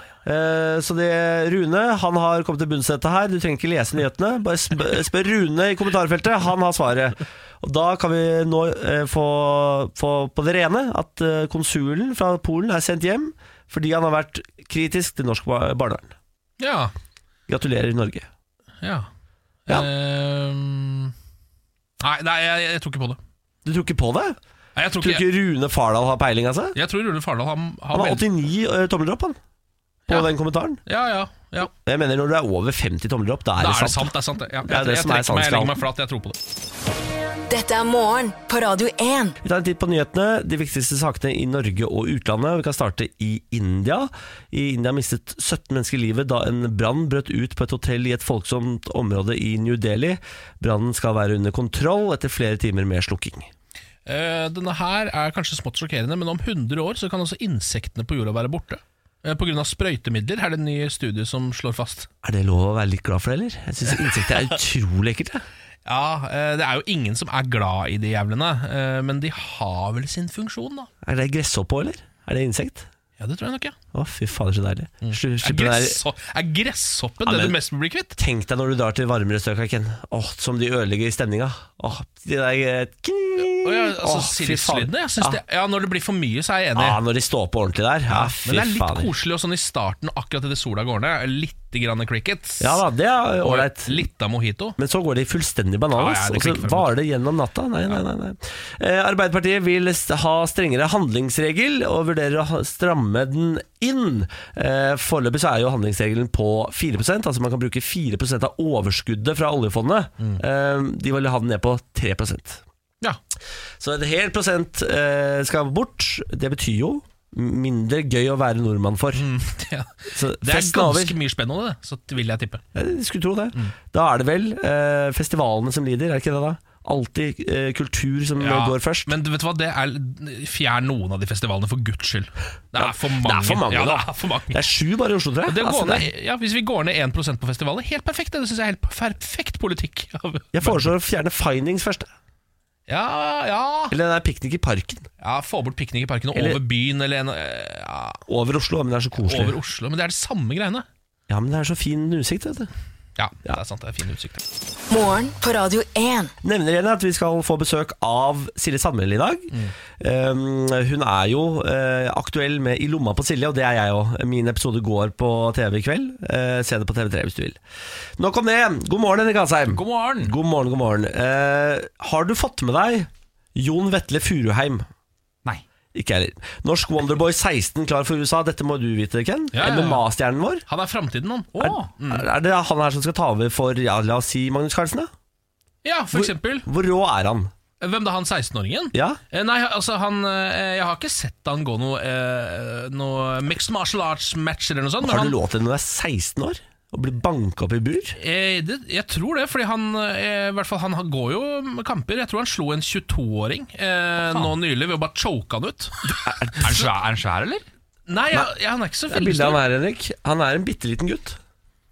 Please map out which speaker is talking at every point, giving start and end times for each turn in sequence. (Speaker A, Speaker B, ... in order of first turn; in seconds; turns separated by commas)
Speaker A: 0.2-16.1, Speaker B: 16.6-16.9, Speaker A: 17.5-18.3, Speaker B: 18.8-19.1, Speaker B: 19.7-21.1, Speaker B: 22.0-23.2, Speaker A: 23.6-24.4, Speaker B: 24.8-25.3, Speaker A: 25.0-26.8, Speaker B: 26.8-28.2, Speaker A: 27.9-29.4, Speaker A: 30.1-30.8, Speaker B: 30.9-31.7, Speaker A: 31.7-34.1, Speaker B: 33.6-36.4, Speaker A: 34.6-35.8, Speaker C: 37.5-39.4, Speaker A: 39.4-53.5, Speaker B: 54.1-62.1, Speaker A: 62.2-65.5, Speaker B: 65.9-70.9, Speaker A: 71.0-72.9, Speaker B: 73.2-73.8, Speaker A: 73.9-76.0, Speaker B: 75.0-78.2, Speaker A: 77.2-77.6, Speaker A: 78.2-85.4, Speaker B: 83.5-87.0, Speaker A: 86.8-89.1, Speaker B: 88.1-92.8, Speaker A: 92.6-94.1, Speaker B: 93.4-94.8, Speaker A: 94.8-112.6, Speaker B: 96.0-97.0, Speaker A: 113.8-119.3, Speaker B: 119.2-122.6, Speaker A: 120.1-121.2, Speaker A: 122.8-129.2, Speaker B: 128.4-134.6, Speaker A: 132.8-136.1, Speaker B: 135.5-140.9, Speaker A: 140.5-142.1, Speaker B: 142.9-143.9, Speaker A: 143.9-145.1, Speaker B: 145.2-148.2, Speaker A: 146.3-146.6, Speaker A: 148.3-149.6, Speaker B: 149.2-150.9, Speaker A: 151.3-152.7, Speaker B: 153.2-154.4, Speaker C: 154.9-156.3, Speaker A: 156.4-167.6, Speaker A: 168.2-174.9, Speaker D: 169.7-170.3, Speaker A: 175.9-180.6, Speaker B: 179.5-180.1, Speaker B: 180.7-182.3, Speaker D: 181.6-181.9, Speaker A: 181.7-185.1, Speaker B: 185.8-186.7, Speaker A: 186.1-187.5, Speaker B: 187.8-195.3, Speaker A: 188.9-189.2, Speaker A: 195.0-198.2, Speaker B: 198.2-206.0, Speaker A: 206.1-206.8, Speaker D: 206.6-207.7, Speaker B: 208.1-209.6, Speaker A: 209.1-211.4